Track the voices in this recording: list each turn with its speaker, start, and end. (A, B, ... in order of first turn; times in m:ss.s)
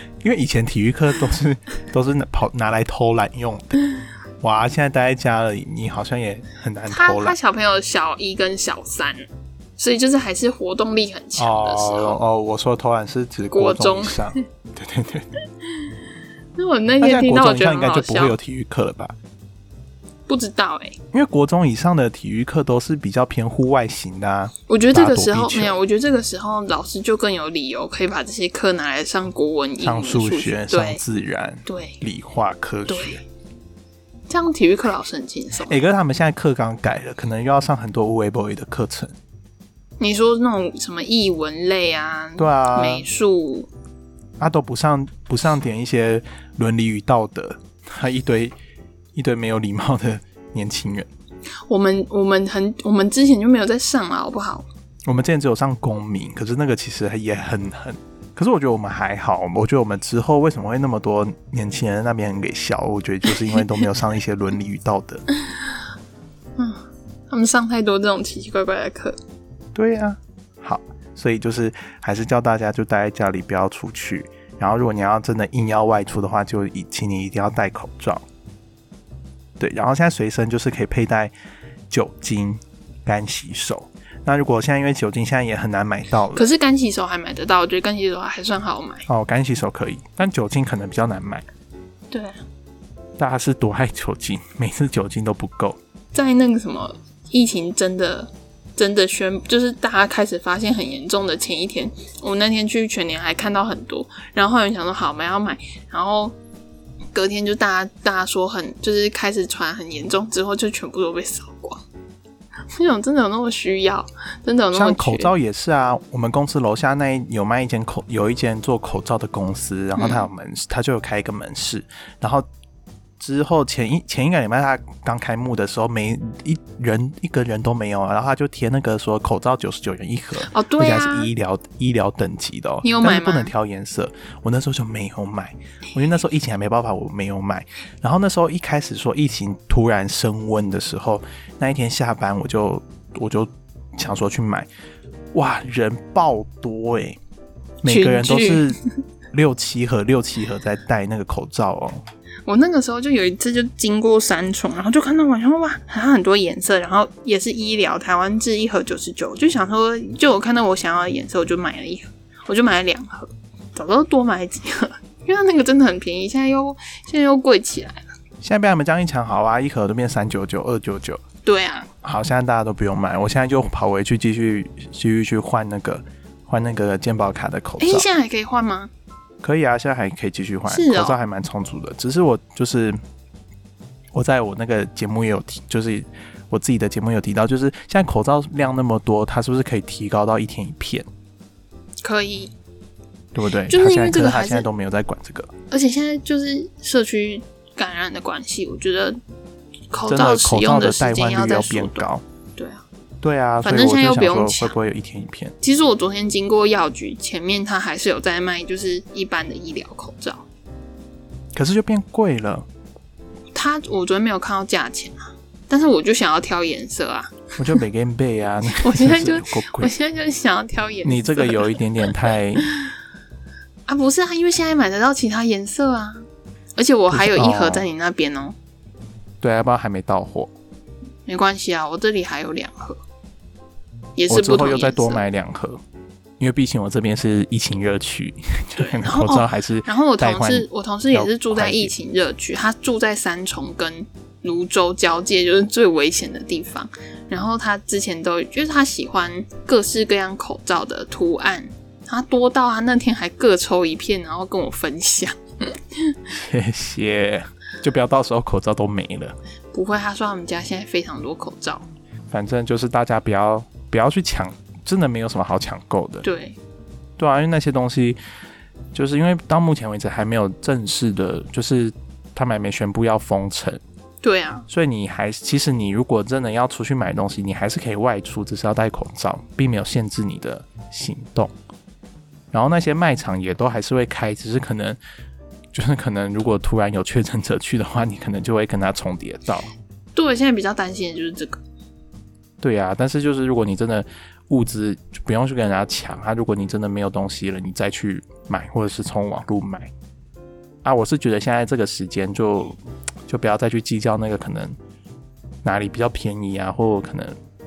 0:00.2-0:03.8 A
0:04.4-0:07.4 A
0:06.9-0:09.3 B
0:09.8-0:12.2 B
0:11.4-0:15.3 A
0:13.5-0:14.4 B
0:15.7-0:15.9 B
0:16.6-0:18.4 B
0:17.0-0:19.2 A
0:20.3-0:21.0 B
0:21.1-0:25.8 A
0:24.7-0:31.0 B
0:29.8-0:33.2 A
0:31.7-0:32.0 B
0:32.9-0:33.2 B
0:34.3-0:35.8 B
0:35.7-0:39.2 A
0:40.0-0:43.7 B
0:42.4-0:43.0 A
0:44.4-0:48.5 A
0:49.2-0:51.1 A
0:51.7-0:54.7 B
0:55.1-1:05.2 A
1:06.6-1:09.2 B
1:09.8-1:18.2 A
1:19.6-1:21.3 A
1:21.9-1:26.5 A
1:26.4-1:29.1 B
1:29.1-1:31.4 A
1:32.1-1:32.4 B
1:33.2-1:35.8 A
1:36.1-1:46.4 B
1:47.1-1:51.8 B
1:52.7-1:55.3 B
1:54.7-2:02.5 A
2:00.0-2:00.3 B
2:03.2-2:24.7 A
2:10.4-2:11.3 B
2:12.8-2:13.5 B
2:25.3-2:27.2 A
2:27.8-2:28.8 A
2:27.9-2:28.8 B
2:29.3-2:32.0 A
2:32.5-2:48.1 B
2:48.4-2:51.2 A
2:51.4-2:51.9 B
2:52.0-2:58.1 A
2:57.8-2:58.9 B
2:59.4-3:03.0 A
3:00.7-3:01.2 B
3:04.1-3:11.1 A
3:12.0-3:12.5 B
3:13.3-3:15.5 A
3:13.7-3:14.7 B
3:15.7-3:19.2 B
3:19.9-3:22.0 B
3:20.1-3:22.2 A
3:22.6-3:22.8 B
3:23.2-3:25.6 A
3:23.6-3:24.8 B
3:25.6-3:30.5 B
3:31.6-3:32.7 A
3:33.6-3:37.6 B
3:37.6-3:39.9 A
3:38.7-3:42.9 B
3:41.0-3:42.6 A
3:43.9-3:48.6 B
3:47.1-3:47.9 A
3:49.4-3:50.5 A
3:51.3-3:53.0 B
3:54.2-3:55.2 B
3:54.3-3:55.8 A
3:56.4-4:01.9 A
3:58.8-4:16.2 B
4:16.3-4:19.4 A
4:19.7-4:21.9 B
4:22.3-4:26.2 A
4:26.2-4:26.6 B
4:27.2-4:28.2 A
4:28.9-4:33.8 A
4:34.2-4:34.7 B
4:34.7-4:41.5 A
4:42.5-4:45.0 A
4:45.7-4:49.7 A
4:50.2-4:51.6 B
4:52.6-4:59.9 A
5:00.8-5:04.8 A
5:05.6-5:07.4 A